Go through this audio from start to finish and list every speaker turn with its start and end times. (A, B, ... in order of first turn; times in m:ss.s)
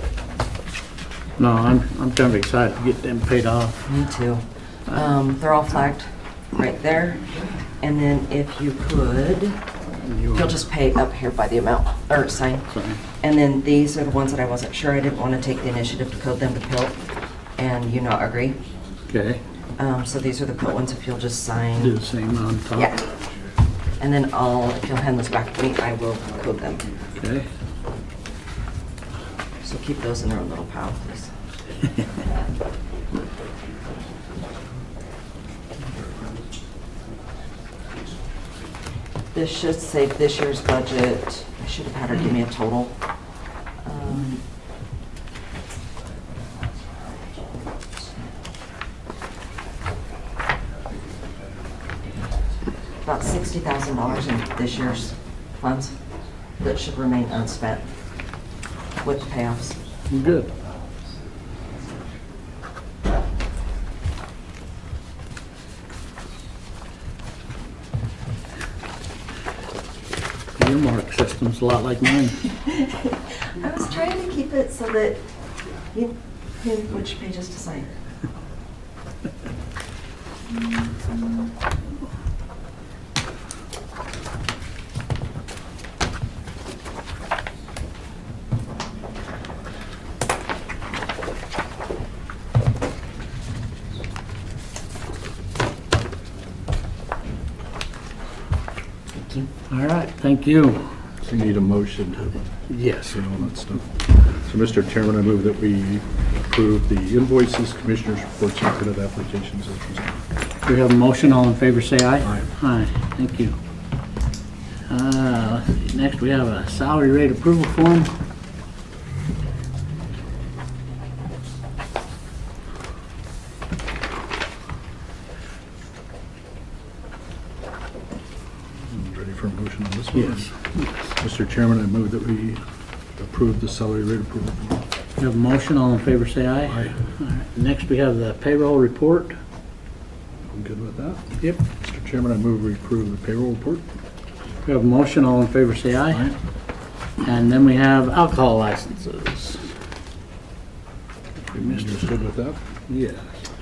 0:01.4-0:03.9 A
0:03.9-0:09.6 B
0:10.0-0:10.6 A
0:10.3-0:12.7 B
0:12.7-0:13.0 A
0:13.2-0:17.0 B
0:17.6-0:18.6 B
0:19.1-0:19.4 A
0:19.8-0:22.0 B
0:21.8-0:22.9 A
0:22.7-0:23.1 B
0:24.0-0:26.9 B
0:27.2-0:27.5 A
0:29.6-0:31.3 B
0:39.3-0:43.0 B
0:43.8-0:44.4 B
0:53.0-0:56.0 B
0:56.6-0:57.9 B
0:59.0-0:59.8 B
1:00.1-1:00.5 A
1:10.6-1:12.4 A
1:12.6-1:15.3 B
1:15.9-1:17.9 B
1:39.1-1:39.5 B
1:39.7-1:40.8 A
1:41.2-1:42.4 C
1:42.7-1:43.3 A
1:43.1-1:50.2 C
1:50.7-1:53.6 A
1:54.9-1:58.1 A
2:08.9-2:10.5 C
2:10.1-2:10.9 A
2:11.1-2:12.6 C
2:13.2-2:14.8 C
2:15.2-2:19.4 A
2:16.7-2:17.0 C
2:20.5-2:23.8 C
2:24.6-2:26.3 A
2:26.1-2:26.4 C
2:27.2-2:29.6 A
2:31.5-2:32.1 A
2:31.5-2:32.6 C
2:32.9-2:33.3 A